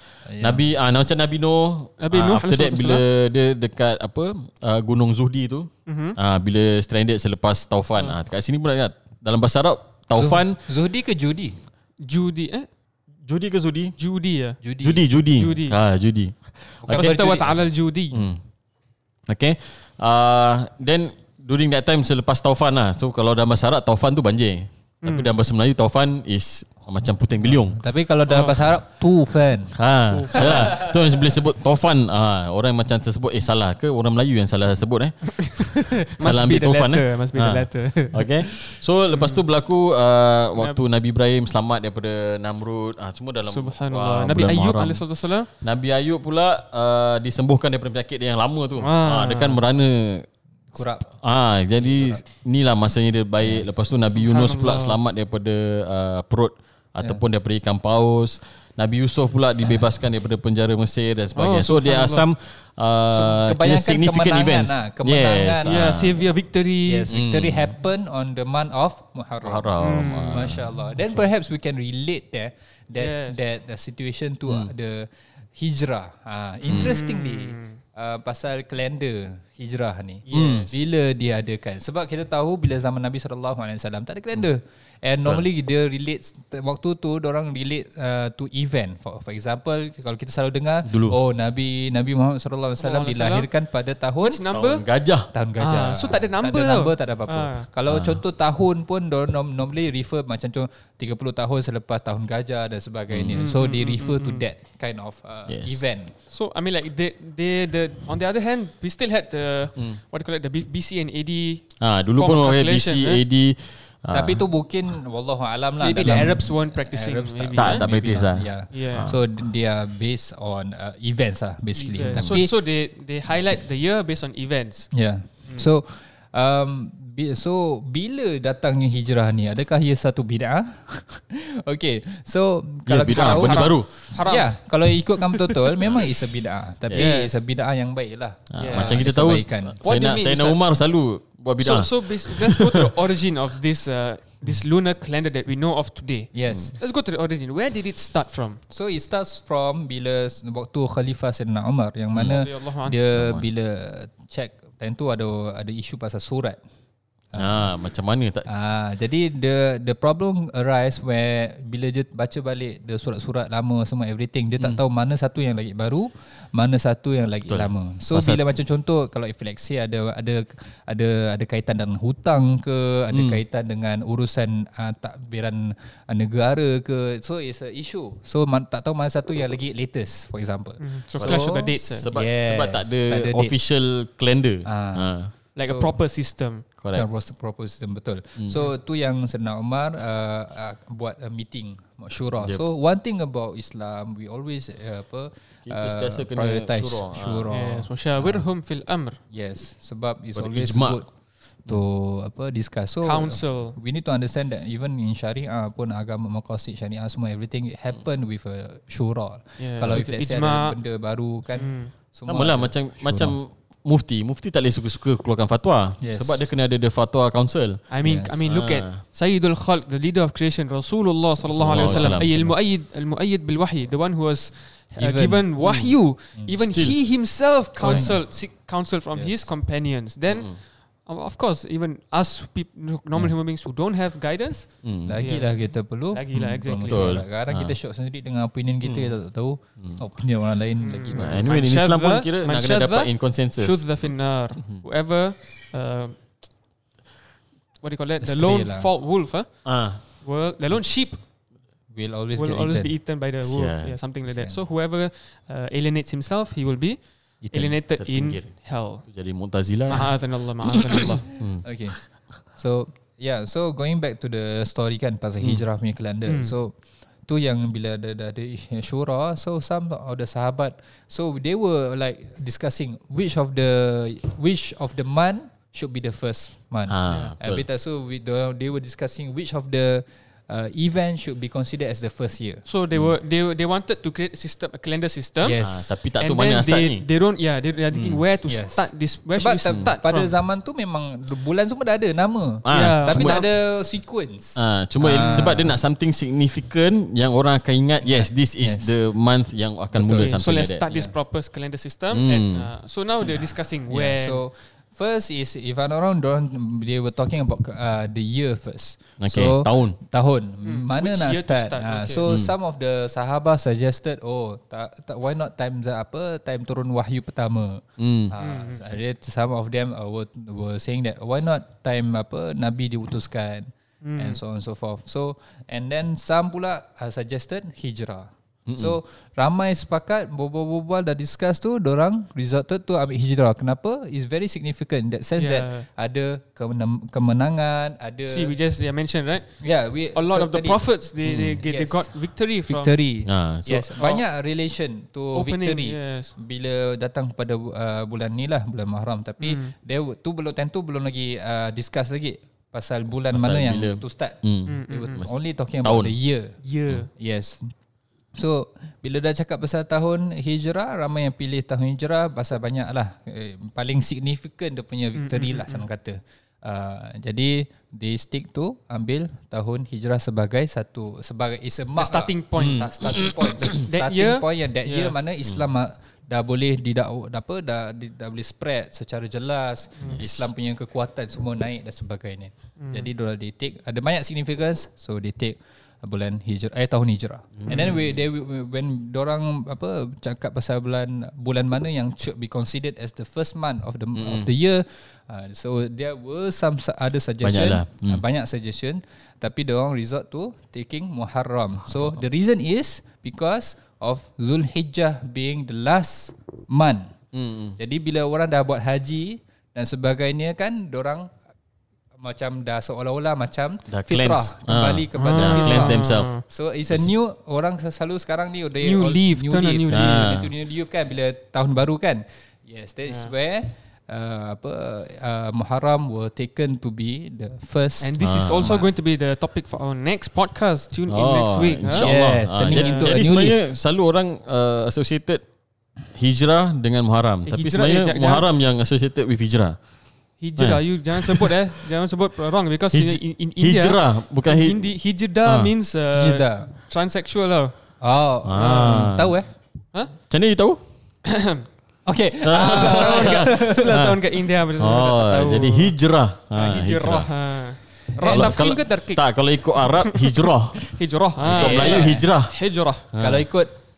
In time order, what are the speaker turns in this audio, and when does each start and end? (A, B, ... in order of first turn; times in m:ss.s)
0:00.2-0:00.7 A
0:00.4-0:10.6 B
0:02.0-0:03.0 C
0:05.8-0:06.2 C
0:10.1-0:11.6 A
0:12.0-0:12.7 C
0:13.2-0:14.0 B
0:14.0-0:14.6 C
0:14.6-0:15.0 A
0:14.8-0:17.2 B
0:15.2-0:15.8 C
0:16.8-0:17.7 A
0:16.9-0:18.2 C
0:18.1-0:18.4 B
0:19.3-0:27.8 B
0:25.0-0:25.3 C
0:27.4-0:29.8 A
0:28.3-0:28.7 C
0:29.7-0:50.3 B
0:30.1-0:30.8 C
0:30.4-0:30.9 A
0:35.4-0:39.4 C
0:43.4-0:45.5 C
0:48.8-0:49.6 C
0:50.7-0:51.1 A
0:51.1-1:06.2 B
0:51.7-0:52.2 A
0:53.4-0:53.7 A
0:54.1-0:55.0 C
1:01.4-1:02.3 C
1:03.1-1:06.2 A
1:05.6-1:07.1 C
1:06.8-1:34.4 A
1:07.1-1:07.7 B
1:09.4-1:10.9 B
1:09.8-1:10.5 C
1:13.0-1:13.4 C
1:16.7-1:16.9 B
1:16.7-1:17.8 C
1:20.3-1:20.8 B
1:30.8-1:31.2 B
1:32.8-1:33.5 C
1:34.2-1:34.8 C
1:34.5-1:35.3 B
1:35.3-1:46.1 A
1:35.6-1:37.7 C
1:37.9-1:38.2 B
1:43.1-1:43.4 B
1:43.3-1:44.4 C
1:45.5-1:45.8 B
1:46.3-1:53.2 C
1:51.8-1:54.4 B
1:54.1-2:02.5 A
1:55.8-1:59.1 C
1:57.5-1:59.2 B
2:01.7-2:04.9 C
2:02.1-2:02.4 B
2:04.9-2:19.8 A
2:12.8-2:13.9 B
2:13.1-2:14.6 C
2:16.9-2:17.2 B
2:16.9-2:17.4 C
2:18.5-2:22.9 B
2:18.6-2:20.6 C
2:21.6-2:28.6 C
2:26.3-2:26.8 A
2:28.7-2:36.6 A
2:32.1-2:32.4 B
2:32.2-2:33.0 C
2:33.1-2:33.4 B
2:37.3-2:37.7 A
2:37.3-2:38.5 B
2:38.5-3:03.5 A
2:47.5-2:48.4 B
2:53.1-2:53.4 B
3:00.8-3:02.1 C
3:01.2-3:05.3 B
3:04.6-3:06.0 A
3:05.6-3:06.7 C
3:06.8-3:07.0 B
3:06.9-3:18.4 A
3:15.6-3:17.5 B
3:17.5-3:19.2 C
3:19.3-3:21.1 A
3:20.3-3:21.0 B
3:21.6-3:33.4 A
3:23.0-3:23.8 C
3:29.6-3:30.8 C
3:31.5-3:31.9 C
3:32.3-3:37.9 B
3:36.0-3:36.4 A
3:37.9-3:57.2 C
3:38.0-3:38.4 A
3:38.5-3:39.0 B
3:41.4-3:42.6 A
3:41.6-3:42.3 B
3:45.0-3:45.5 A
3:45.6-3:45.9 B
3:46.6-3:47.0 B
3:47.8-3:48.4 A
3:47.8-3:48.1 B
3:49.1-3:49.5 A
3:50.3-3:50.6 B
3:54.8-3:55.2 B
3:55.0-4:01.6 A
3:56.9-3:57.7 B
3:58.8-3:59.1 B
4:00.8-4:06.4 C
4:01.1-4:03.8 B
4:07.8-4:11.2 C
4:08.2-4:08.9 A
4:09.6-4:10.0 B
4:11.9-4:12.9 A
4:12.3-4:19.1 C
4:13.4-4:14.0 B
4:14.2-4:14.6 A
4:17.4-4:17.8 A
4:18.0-4:21.7 B
4:19.9-4:21.3 C
4:21.6-4:26.7 A
4:26.2-4:26.6 C
4:27.2-4:42.6 A
4:36.9-4:37.6 B
4:42.6-4:45.6 C
4:45.4-4:45.9 A
4:45.6-4:47.0 B
4:46.2-4:50.3 C
4:47.9-4:48.2 B
4:48.4-4:55.8 A
4:52.6-4:53.4 B
4:52.7-4:53.5 C
4:54.6-5:00.8 B
4:58.0-4:58.9 A
4:59.9-5:01.1 A
5:00.1-5:04.4 C
5:02.1-5:02.7 B
5:03.9-5:38.6 A
5:09.2-5:10.0 B
5:10.6-5:12.3 C
5:12.3-5:12.5 B
5:18.0-5:18.4 B
5:18.4-5:18.8 C
5:24.0-5:24.4 C
5:28.7-5:29.0 B
5:35.4-5:35.9 C
5:38.3-5:39.5 C
5:39.6-5:40.8 A
5:40.1-5:42.9 C
5:41.2-5:41.6 B
5:41.6-5:42.1 A
5:42.7-5:56.6 A
5:43.2-5:43.9 B
5:43.9-5:44.2 C
5:45.3-5:46.3 C
5:49.4-5:49.7 C
5:53.3-5:55.3 B
5:54.7-5:55.2 C
5:55.8-5:56.1 B
5:56.6-5:57.1 C
5:57.1-5:57.7 A
5:58.3-6:47.1 A
6:05.2-6:05.8 C
6:12.0-6:12.9 C
6:12.6-6:13.8 B
6:13.6-6:15.2 C
6:20.2-6:20.5 B
6:22.8-6:23.1 C
6:27.6-6:27.9 B
6:27.7-6:28.0 C
6:34.1-6:34.5 B
6:37.4-6:38.2 B
6:47.3-6:47.8 B
6:47.8-6:51.3 A
6:52.2-7:08.9 A
6:53.9-6:56.4 B
6:55.1-6:56.4 C
6:58.8-7:00.3 C
6:59.9-7:00.5 B
7:03.1-7:03.3 C
7:08.0-7:12.1 C
7:08.2-7:08.8 B
7:11.1-7:15.4 B
7:11.9-7:13.6 A
7:12.7-7:13.2 C
7:16.1-7:19.8 B
7:17.4-7:18.4 C
7:20.4-7:27.7 C
7:20.6-7:21.8 B
7:22.9-7:24.9 B
7:25.4-7:25.7 B
7:26.1-7:26.7 A
7:28.0-7:29.5 A
7:28.4-7:29.3 B
7:28.5-7:29.1 C
7:30.3-7:30.8 B
7:31.2-7:31.6 C
7:32.0-7:33.9 A
7:32.4-7:34.2 B
7:32.6-7:35.9 C
7:34.8-7:37.3 B
7:36.5-7:43.0 C
7:38.2-7:38.6 A
7:38.2-7:40.9 B
7:41.4-7:42.6 B
7:41.5-7:42.2 A
7:43.1-7:43.4 B
7:43.2-7:43.7 A